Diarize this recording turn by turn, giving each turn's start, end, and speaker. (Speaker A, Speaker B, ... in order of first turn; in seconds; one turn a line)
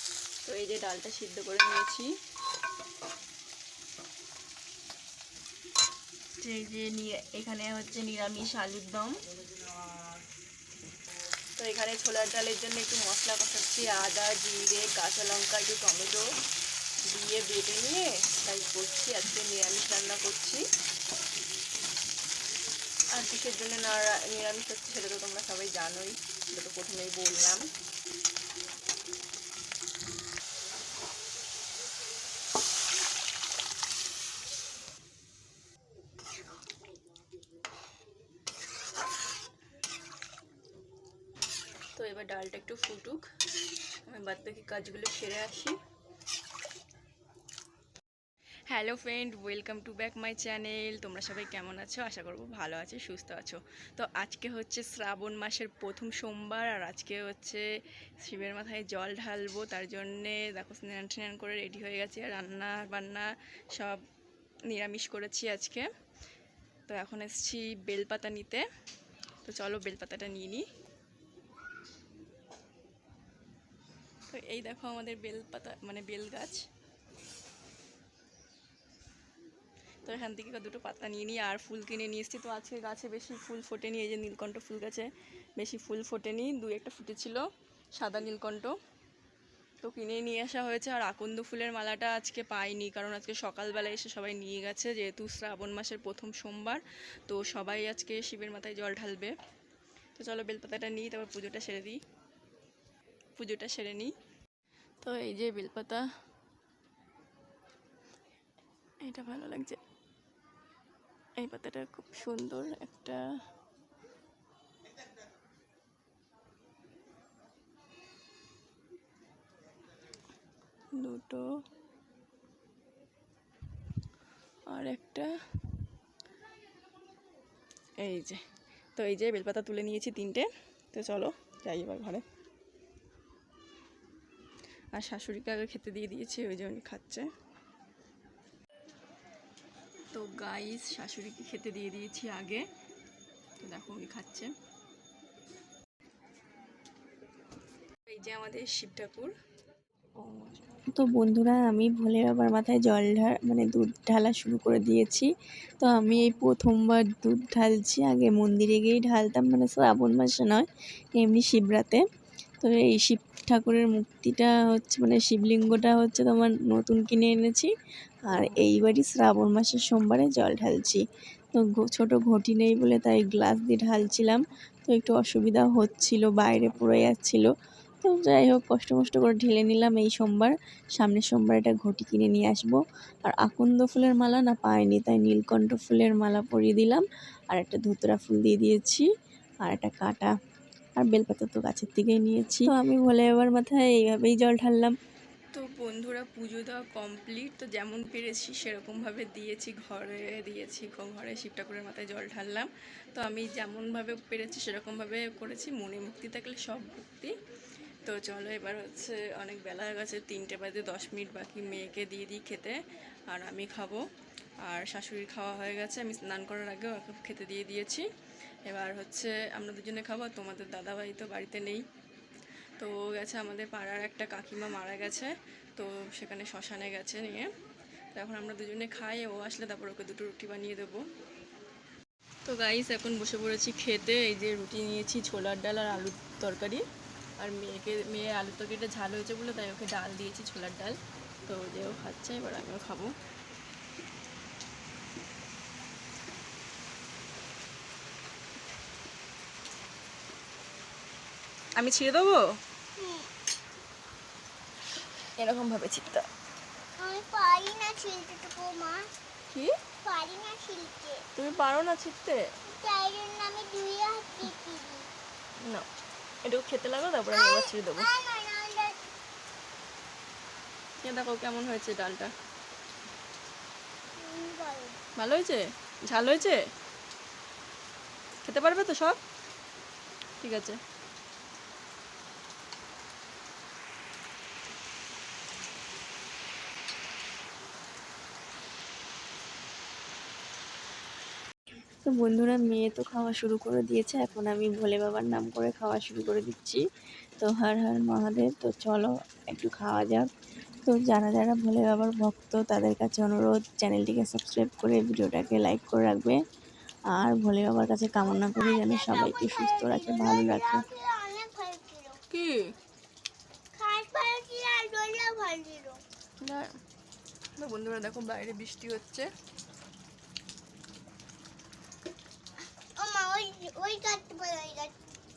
Speaker A: 0.4-2.1
Speaker A: 6.4-9.2
Speaker A: 11.6-16.2
Speaker A: 17.1-20.6
Speaker A: 23.1-27.6
Speaker A: 42.0-43.2
Speaker A: 44.0-45.8
Speaker A: 48.7-57.6
Speaker A: 58.2-64.0
Speaker A: 64.7-65.9
Speaker A: 66.9-68.6
Speaker A: 69.5-70.6
Speaker A: 74.3-76.7
Speaker A: 80.0-87.4
Speaker A: 88.0-88.8
Speaker A: 89.8-99.3
Speaker A: 100.2-102.0
Speaker A: 103.4-104.1
Speaker A: 105.0-106.0
Speaker A: 109.0-109.8
Speaker A: 111.4-113.2
Speaker A: 121.0-121.4
Speaker A: 124.7-125.3
Speaker A: 128.0-128.4
Speaker A: 129.0-132.2
Speaker A: 134.9-137.3
Speaker A: 140.1-142.7
Speaker A: 143.6-144.5
Speaker A: 148.1-149.3
Speaker A: 150.2-150.9
Speaker B: 150.9-155.3
Speaker B: 155.8-162.0
Speaker B: 162.6-167.7
Speaker B: 168.3-171.0
Speaker B: 171.5-177.5
Speaker B: 178.0-189.1
Speaker B: 189.6-190.3
Speaker B: 191.0-194.9
Speaker A: 192.4-192.7
Speaker A: 195.5-207.3
Speaker A: 208.1-212.8
Speaker A: 213.3-214.0
Speaker A: 214.6-218.1
Speaker A: 218.7-221.8
Speaker A: 222.8-227.5
Speaker A: 228.2-231.0
Speaker A: 232.5-236.8
Speaker A: 237.4-243.1
Speaker A: 251.8-252.6
Speaker C: 253.0-253.3
Speaker A: 255.4-256.3
Speaker C: 257.0-259.1
Speaker C: 260.0-261.2
Speaker A: 261.4-262.4
Speaker C: 262.7-265.1
Speaker A: 265.6-265.9
Speaker A: 266.4-268.1
Speaker C: 267.3-269.0
Speaker A: 271.0-272.3
Speaker C: 274.2-275.0
Speaker A: 275.2-276.6
Speaker A: 278.4-279.2
Speaker A: 280.4-280.8
Speaker B: 292.1-296.8
Speaker B: 297.4-300.3
Speaker B: 300.9-306.4
Speaker B: 307.1-310.8
Speaker C: 308.2-312.2
Speaker A: 312.3-312.7
Speaker C: 313.8-316.0
Speaker A: 316.4-316.7
Speaker A: 317.6-319.3
Speaker C: 323.0-324.9